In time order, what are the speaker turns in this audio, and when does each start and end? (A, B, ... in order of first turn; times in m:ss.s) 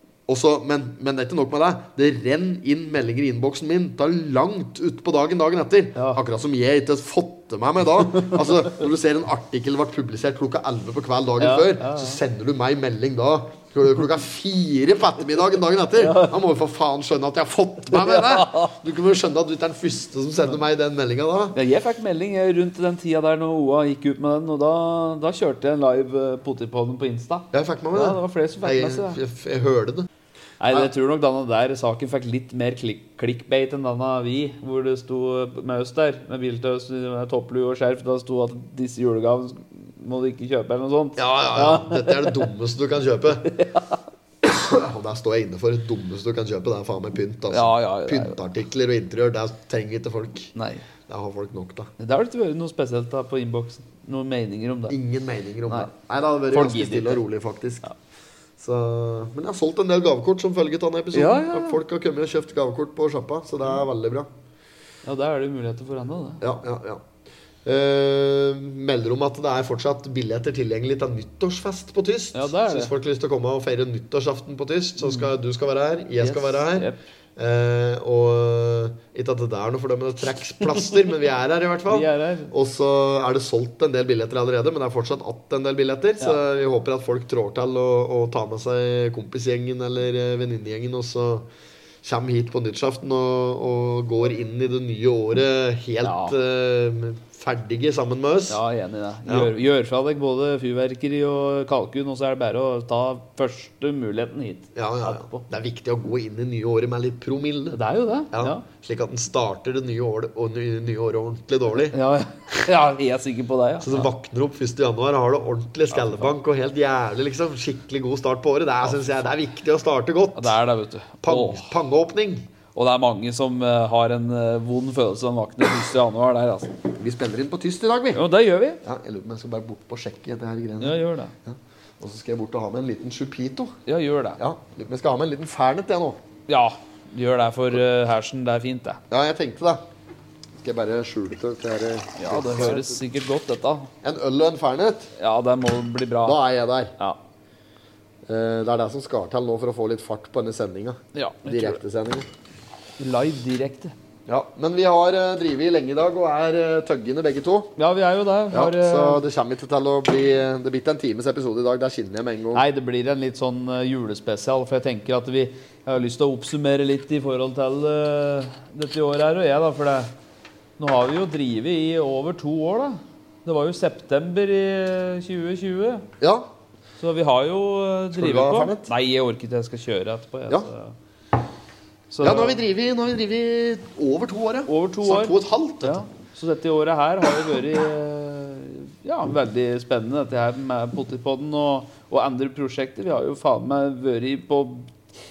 0:00.3-0:21.6 A
0:11.4-0:12.2 B
0:16.0-0:16.4 B
0:17.9-0:18.7 B
0:21.5-0:29.2 B
0:27.5-0:30.1 A
0:30.6-0:42.5 B
0:41.2-0:43.5 A
0:43.5-0:44.0 B
0:44.4-0:50.5 A
0:47.5-0:48.4 B
0:50.5-0:50.8 B
0:51.1-0:51.9 A
0:52.0-0:55.0 B
0:54.9-0:57.8 A
0:56.5-0:57.2 B
0:58.6-1:04.3 A
1:01.1-1:01.8 B
1:05.0-1:06.4 B
1:06.4-1:07.0 A
1:07.6-1:31.5 A
1:12.3-1:12.9 B
1:16.2-1:17.0 B
1:21.9-1:22.5 B
1:32.0-1:38.6 A
1:36.0-1:36.3 B
1:38.5-1:45.4 B
1:39.3-1:39.5 A
1:44.7-1:47.8 A
1:47.7-1:48.6 B
1:48.3-1:52.0 A
1:51.9-1:54.1 B
1:53.8-2:00.5 A
1:55.9-1:56.3 B
1:58.9-1:59.2 B
2:00.4-2:01.7 B
2:01.2-2:02.5 A
2:02.7-2:06.8 B
2:07.0-2:08.2 A
2:08.1-2:08.8 B
2:08.8-2:13.7 A
2:10.8-2:11.3 B
2:13.9-2:14.4 B
2:14.4-2:16.2 A
2:16.5-2:19.0 B
2:19.1-2:19.8 A
2:20.6-2:23.0 A
2:22.2-2:23.9 B
2:24.0-2:25.1 A
2:25.2-2:26.4 B
2:26.2-2:26.9 A
2:28.3-2:32.3 A
2:31.1-2:31.8 B
2:33.0-2:33.9 B
2:34.3-2:37.7 A
2:37.8-2:39.2 B
2:38.5-2:42.6 A
2:42.5-2:50.1 B
2:50.8-2:56.1 B
2:56.2-2:56.5 A
2:57.0-3:00.9 B
2:58.1-2:58.9 A
3:02.1-3:02.6 B
3:02.2-3:06.0 A
3:04.7-3:14.9 B